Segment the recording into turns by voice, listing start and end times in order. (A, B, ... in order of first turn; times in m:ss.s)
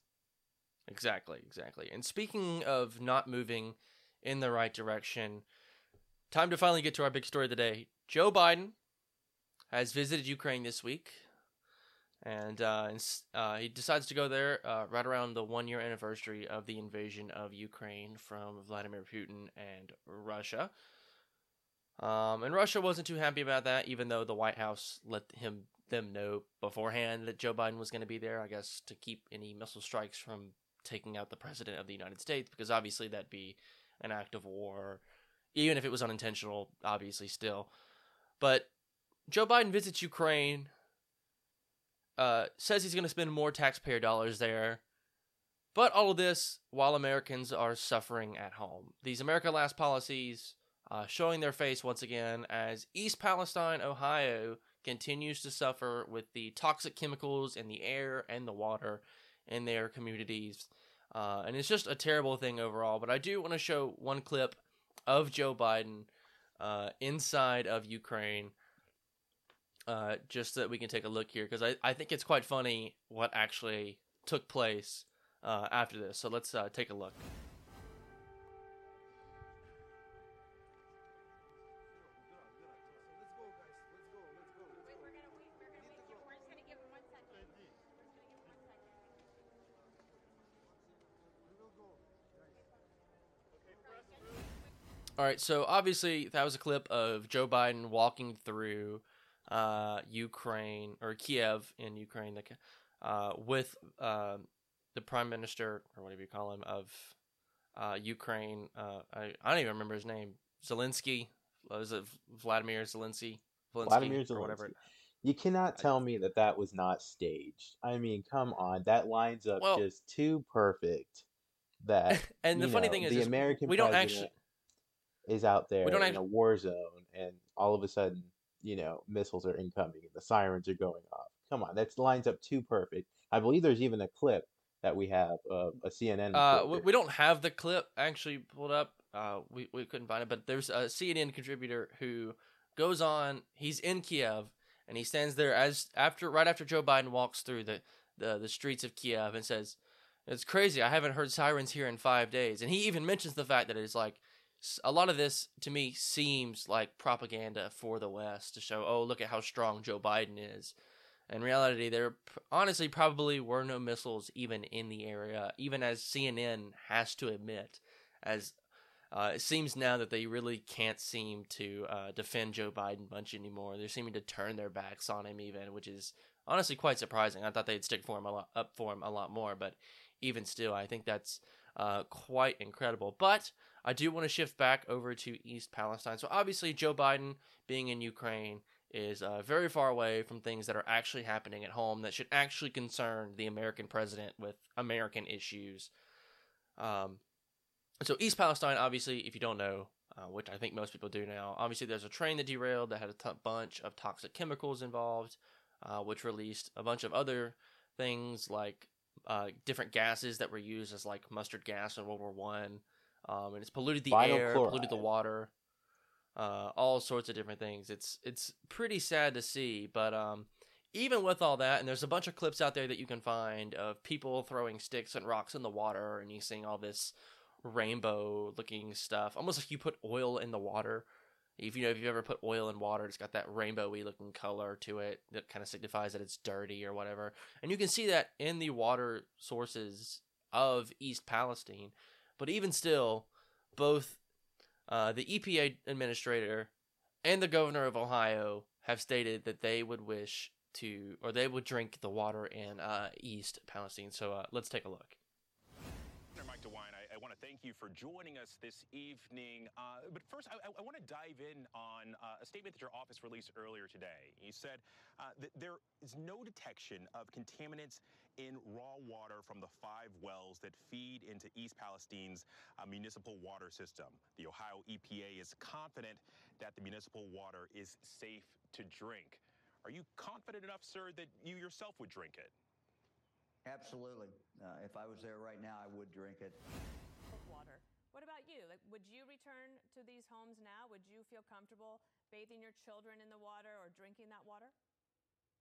0:00.9-0:05.4 A
0:06.3-0:08.8 A
0:09.7-0:11.2 A
0:12.2-0:20.7 A
0:22.0-0:35.0 A
0:35.5-0:37.7 A
0:38.4-0:38.7 A
0:39.3-0:40.7 A
0:42.2-0:44.8 A
0:45.7-1:08.5 A
1:09.9-1:17.2 A
1:35.2-1:47.1 A
1:47.8-1:54.8 A
1:53.8-2:01.2 B
1:59.6-1:59.8 A
2:01.8-2:04.3 B
2:02.1-2:04.3 A
2:05.2-2:16.9 B
2:05.8-2:06.2 A
2:16.3-2:40.7 A
2:41.3-2:48.5 A
2:49.1-3:15.9 A
3:16.8-3:17.2 A
3:18.0-3:35.5 A
3:34.1-3:35.0 B
3:36.4-3:51.0 A
3:51.6-4:04.2 A
4:04.9-4:06.7 A
4:07.2-4:15.2 A
4:16.3-4:42.5 C
4:43.6-4:46.6 D
4:47.3-4:54.7 E